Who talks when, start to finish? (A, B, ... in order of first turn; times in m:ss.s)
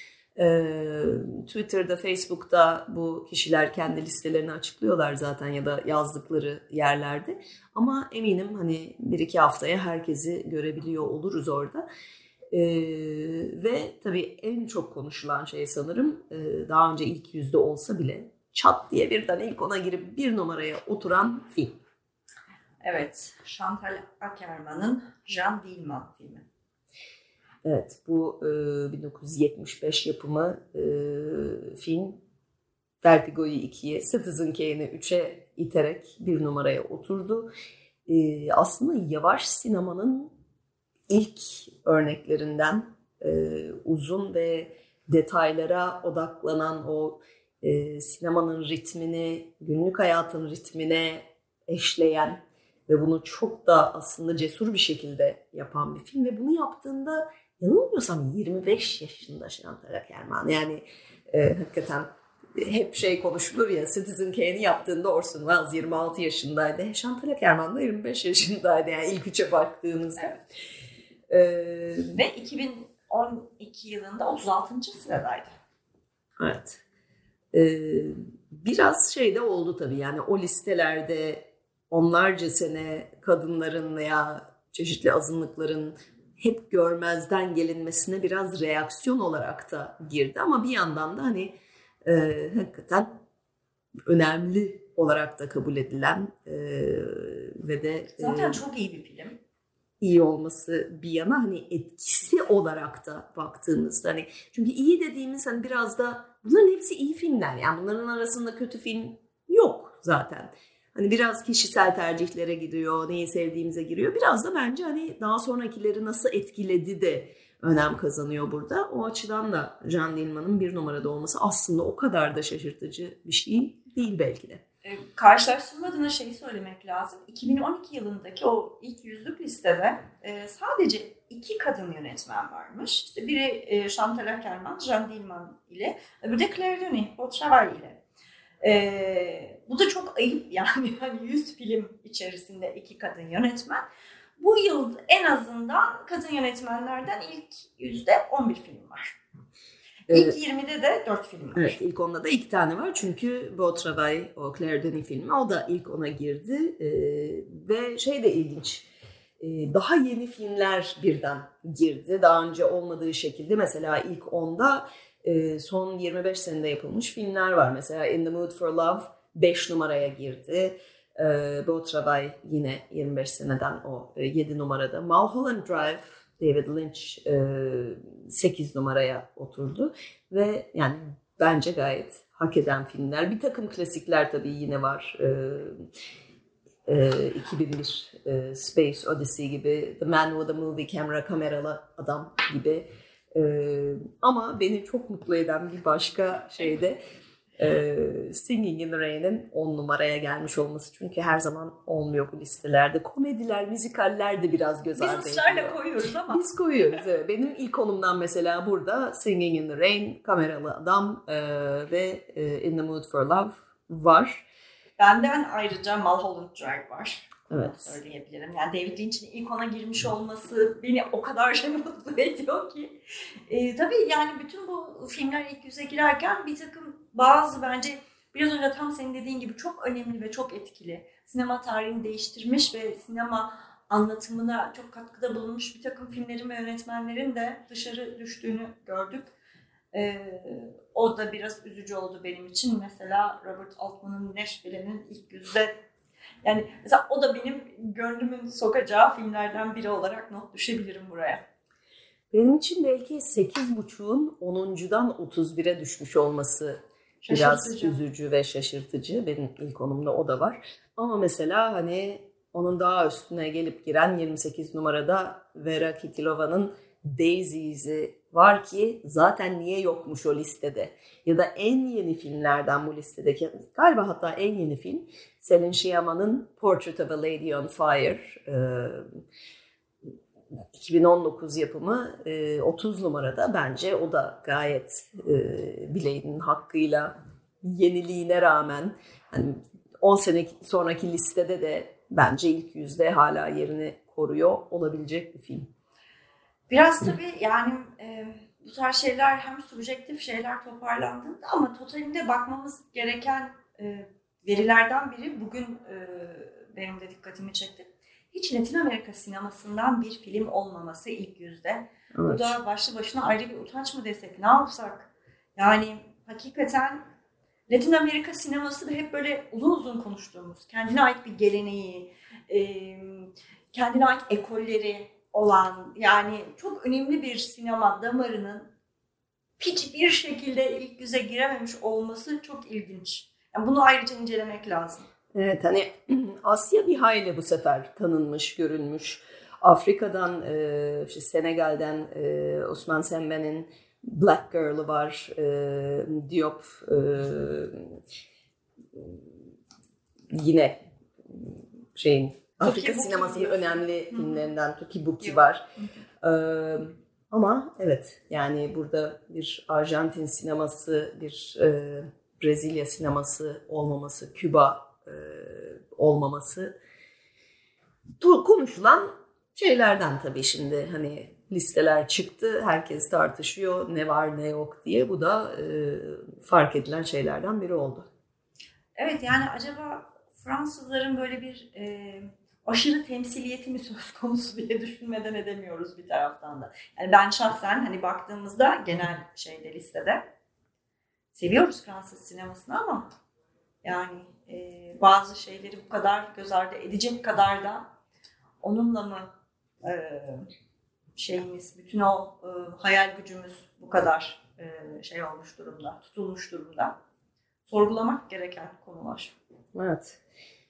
0:00.4-0:11.8 A
0:12.5-0:21.8 A
0:22.8-0:26.4 B
0:27.6-0:32.2 A
0:33.0-0:37.5 A
0:38.1-0:40.3 A
0:41.1-1:10.4 A
1:11.3-1:12.1 A
1:12.1-1:15.5 B
1:16.4-1:16.8 A
1:17.5-1:33.2 A
1:34.0-1:38.6 A
1:38.2-1:39.4 B
1:40.0-2:04.6 A
2:04.8-2:18.0 B
2:18.6-2:23.8 B
2:24.4-2:29.2 B
2:30.1-2:30.4 A
2:30.1-2:31.8 B
2:31.5-3:05.8 A
3:06.9-3:17.0 A
3:17.6-3:25.8 A
3:25.0-3:27.0 B
3:26.3-3:34.4 A
3:35.0-3:59.3 B
3:37.5-3:38.0 A
3:59.9-4:05.7 B
4:06.4-4:11.4 B
4:12.3-4:39.1 A
4:17.2-4:18.0 B
4:40.7-4:55.7 A
4:56.7-5:17.0 B
5:12.1-5:12.6 A
5:17.7-5:28.7 B
5:29.6-5:35.1 B
5:35.3-5:48.0 A
5:48.9-5:49.2 A
5:50.3-5:55.7 A
5:52.6-5:54.4 B
5:55.2-5:56.0 B
5:56.2-6:06.7 A
6:08.2-6:18.1 A
6:19.0-6:30.2 B
6:31.3-6:33.1 B
6:33.8-6:37.9 B
6:38.6-6:39.3 B
6:39.8-6:40.5 B
6:41.2-6:47.0 B
6:47.7-6:49.3 B
6:49.7-6:50.2 A